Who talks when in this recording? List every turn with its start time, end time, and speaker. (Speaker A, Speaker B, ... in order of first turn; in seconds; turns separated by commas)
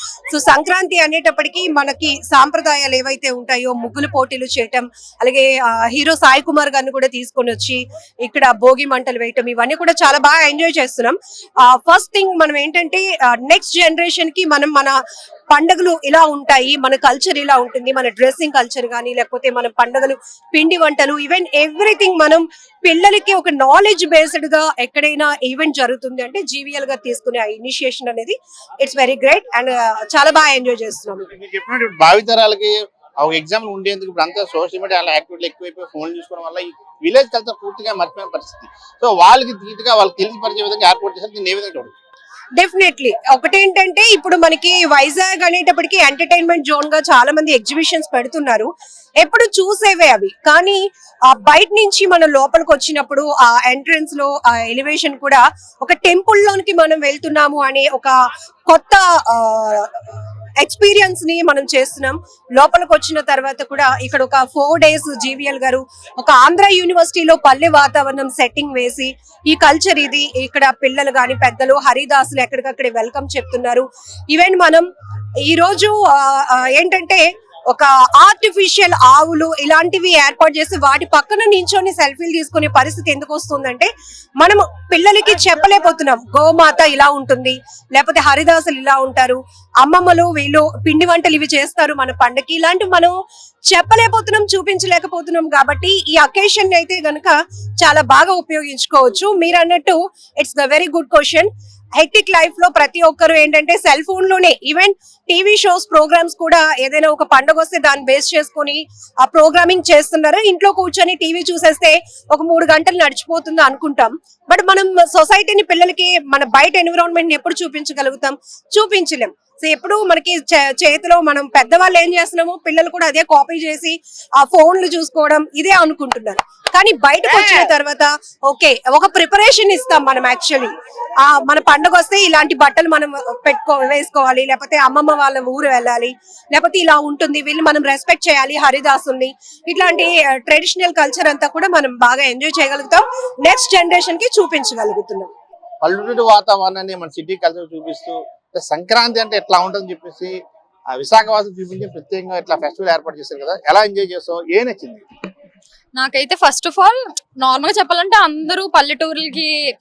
Speaker A: 0.3-15.0, Speaker A: 15.5-31.3, Speaker B: 31.3-41.9, Speaker A: 42.6-48.7, Speaker A: 49.2-58.1, Speaker A: 58.7-60.0, Speaker A: 60.6-74.9, Speaker A: 75.5-93.1, Speaker A: 93.7-130.7, Speaker B: 127.3-127.6, Speaker A: 131.2-145.3, Speaker B: 145.8-150.4, Speaker B: 150.9-155.1, Speaker C: 156.0-159.5